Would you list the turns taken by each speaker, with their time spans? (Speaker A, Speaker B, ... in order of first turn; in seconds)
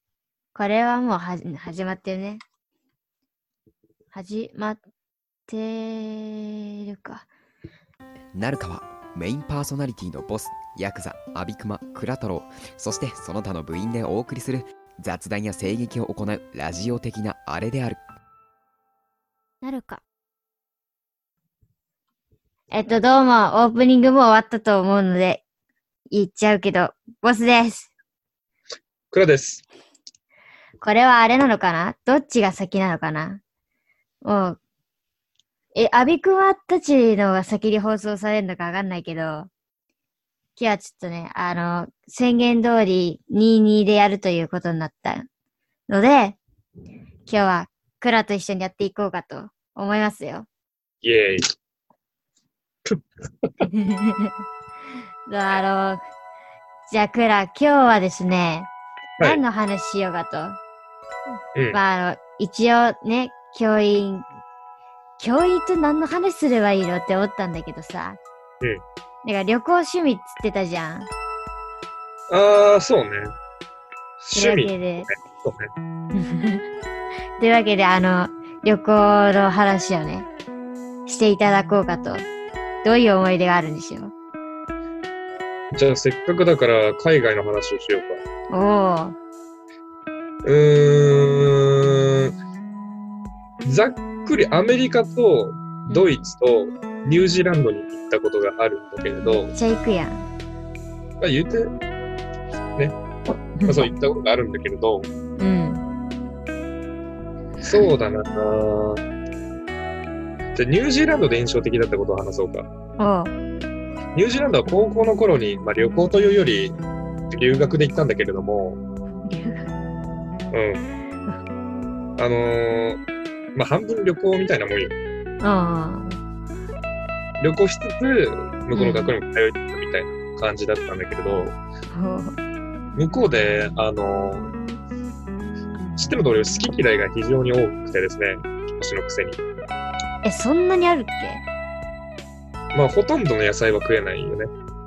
Speaker A: 0.5-2.4, 4.1-4.8, 5.5-7.3, 19.6-20.0, 22.7-25.4, 26.1-27.9, 30.8-33.4, 34.2-34.6, 35.7-39.5, 40.5-45.2, 45.9-46.4, 47.2-50.5, 53.6-54.3, 55.3-56.0, 56.9-58.7, 59.2-60.6, 61.7-64.2, 65.2-68.2, 69.2-71.1, 74.3-75.1, 76.1-76.6, 77.4-80.3, 81.0-82.3, 82.8-84.1, 88.5-89.2, 95.9-96.3, 99.2-100.2, 103.6-103.9, 105.4-105.8, 113.0-113.3, 119.2-119.7, 125.4-126.2, 128.7-129.1, 131.9-132.3, 140.2-141.4
Speaker B: 8.3-18.0
Speaker C: 29.1-29.6, 51.0-51.4, 52.9-53.5, 61.5-61.8, 72.3-73.3, 74.2-75.7, 85.7-88.2, 90.4-92.3, 93.7-99.5, 101.2-101.7, 103.6-105.1, 107.6-109.0, 110.5-112.7, 114.1-116.8, 117.3-118.8, 120.5-120.8, 122.2-123.0, 123.5-124.9, 127.4-131.6, 132.9-134.5, 136.0-139.4, 142.7-144.5